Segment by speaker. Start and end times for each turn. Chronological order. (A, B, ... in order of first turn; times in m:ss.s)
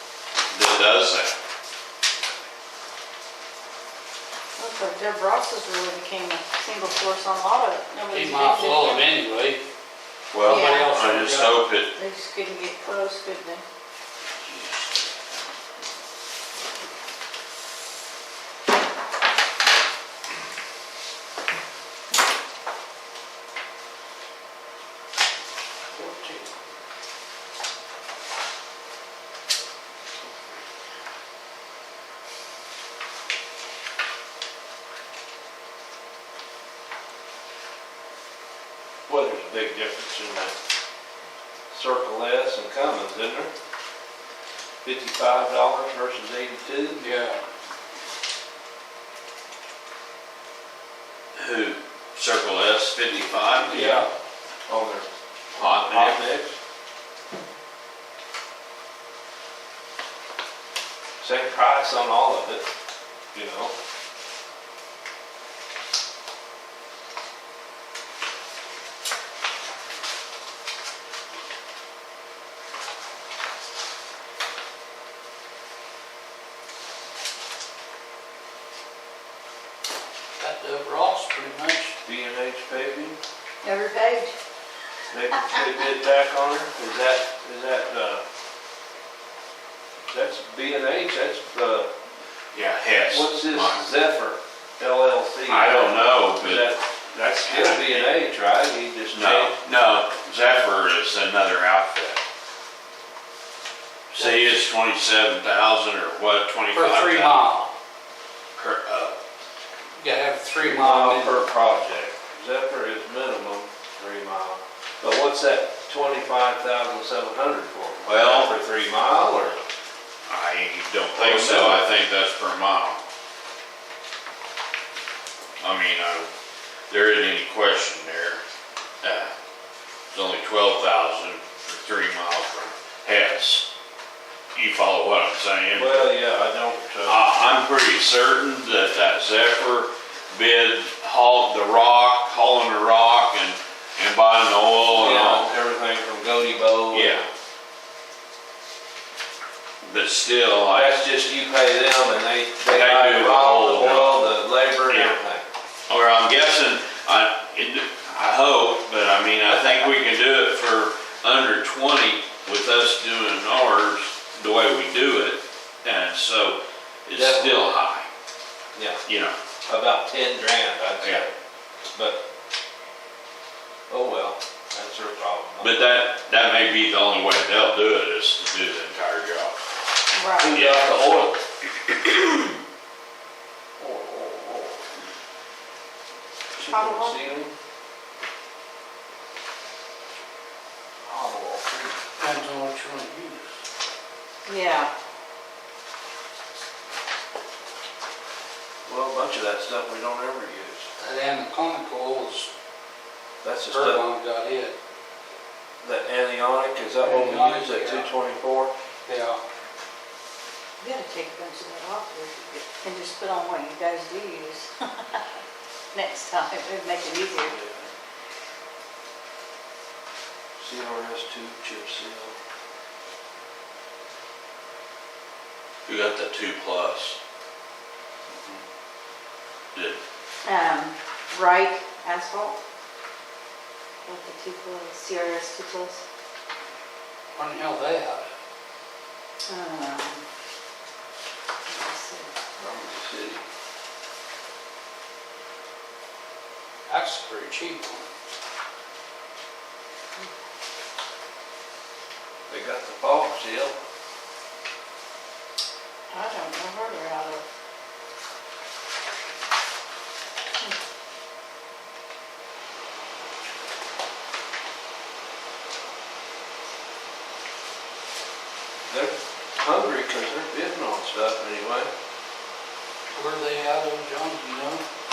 0:00.5-0:01.4 A
0:04.6-0:09.1 B
0:08.1-0:09.6 C
0:10.3-0:11.9 A
0:10.4-0:10.9 B
0:10.5-0:11.6 C
0:11.9-0:13.6 B
0:25.9-0:26.5 C
0:39.1-0:40.6 D
0:41.7-0:43.5 D
0:44.8-0:47.0 D
0:46.9-0:47.4 C
0:51.3-0:54.0 A
0:53.2-0:54.1 D
0:53.7-0:54.1 C
0:54.7-0:56.5 D
0:55.6-0:56.2 A
1:01.2-1:02.7 D
1:03.3-1:03.7 D
1:20.4-1:22.0 C
1:22.0-1:23.2 D
1:23.6-1:24.4 B
1:25.1-1:28.2 D
1:30.1-1:31.9 D
1:32.5-1:33.9 A
1:33.1-1:39.6 D
1:35.5-1:36.7 A
1:37.4-1:38.1 A
1:39.1-1:42.2 A
1:44.1-1:47.6 A
1:44.2-1:44.5 C
1:46.7-1:47.7 C
1:48.6-1:49.2 A
1:50.0-1:51.5 C
1:50.6-1:59.6 D
1:58.0-1:58.6 A
2:00.3-2:03.0 A
2:01.2-2:01.9 D
2:05.6-2:06.3 A
2:06.9-2:08.4 A
2:09.0-2:09.3 A
2:10.1-2:13.7 A
2:14.5-2:16.2 A
2:15.7-2:17.3 D
2:17.0-2:25.5 A
2:24.9-2:27.2 D
2:26.9-2:27.3 A
2:29.8-2:31.0 A
2:30.7-2:35.4 D
2:32.7-2:34.3 A
2:34.9-2:35.2 A
2:35.9-2:48.1 A
2:47.1-2:47.7 D
2:48.8-2:49.0 D
2:49.1-2:49.4 A
2:49.7-2:52.2 D
2:53.9-2:55.8 D
2:55.6-2:59.6 A
3:00.1-3:00.6 B
3:00.4-3:01.4 D
3:00.4-3:01.3 A
3:01.9-3:02.5 A
3:03.8-3:04.8 D
3:06.6-3:07.5 D
3:06.6-3:07.2 B
3:11.0-3:12.0 D
3:12.2-3:13.5 C
3:14.5-3:14.9 B
3:18.9-3:20.9 D
3:21.0-3:22.5 C
3:23.4-3:24.0 D
3:23.7-3:24.8 C
3:25.8-3:28.7 D
3:27.0-3:28.1 C
3:29.1-3:29.4 C
3:30.8-3:35.2 B
3:35.9-3:37.6 B
3:37.5-3:37.9 D
3:40.6-3:42.4 D
3:45.8-3:47.2 A
3:49.7-3:50.0 A
3:50.4-3:52.6 B
3:54.0-3:56.0 B
3:57.3-3:58.3 C
3:59.5-4:00.2 B
4:01.7-4:02.3 B
4:02.6-4:03.4 D
4:06.9-4:08.1 C
4:12.5-4:13.8 D
4:16.1-4:17.4 B
4:28.9-4:31.9 D
4:33.1-4:34.8 C